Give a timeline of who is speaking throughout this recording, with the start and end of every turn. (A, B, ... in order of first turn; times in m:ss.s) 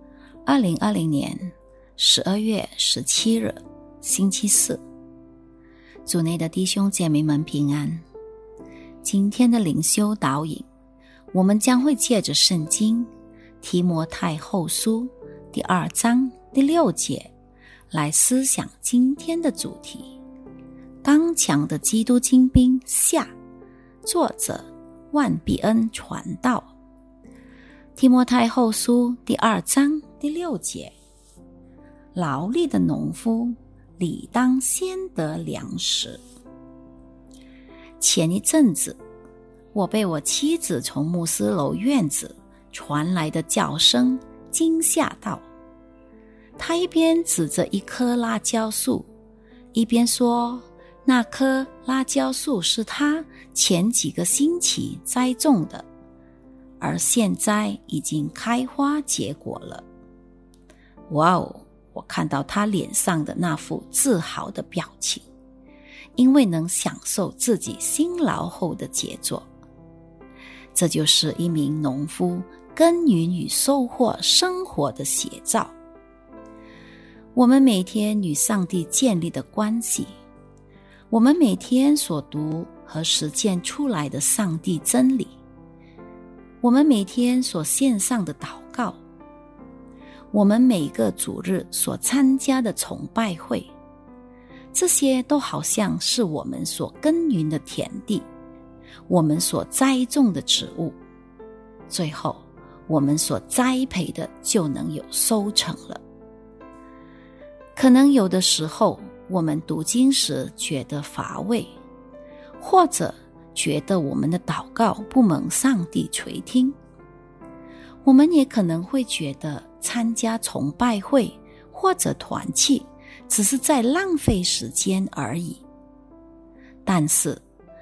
0:00.4-0:04.8 A
0:06.0-0:08.0 A
0:09.0-0:10.6 A
0:11.3-0:13.1 A
0:13.6-0:17.3 A
0:17.9-0:20.2 A
0:21.0-0:23.3 A
0:24.0-0:26.7 A
0:28.0-0:30.9 A
0:32.1-0:36.2 A
0:38.0-0:39.0 A
0:39.7-0:45.4 A
0:46.6-0:49.1 A
0:49.7-0:55.9 A
0:56.8-0:59.8 A
1:01.1-1:05.2 A
1:06.2-1:09.5 A
1:10.7-1:15.7 A
1:17.3-1:20.1 A
1:21.1-1:25.4 A
1:26.6-1:29.0 A
1:30.3-1:33.7 A
1:34.7-1:38.3 A
1:39.1-1:41.0 A
1:41.9-1:46.0 A
1:47.7-1:51.7 A
1:52.6-1:56.8 A
1:58.0-2:05.6 A
2:06.8-2:07.4 A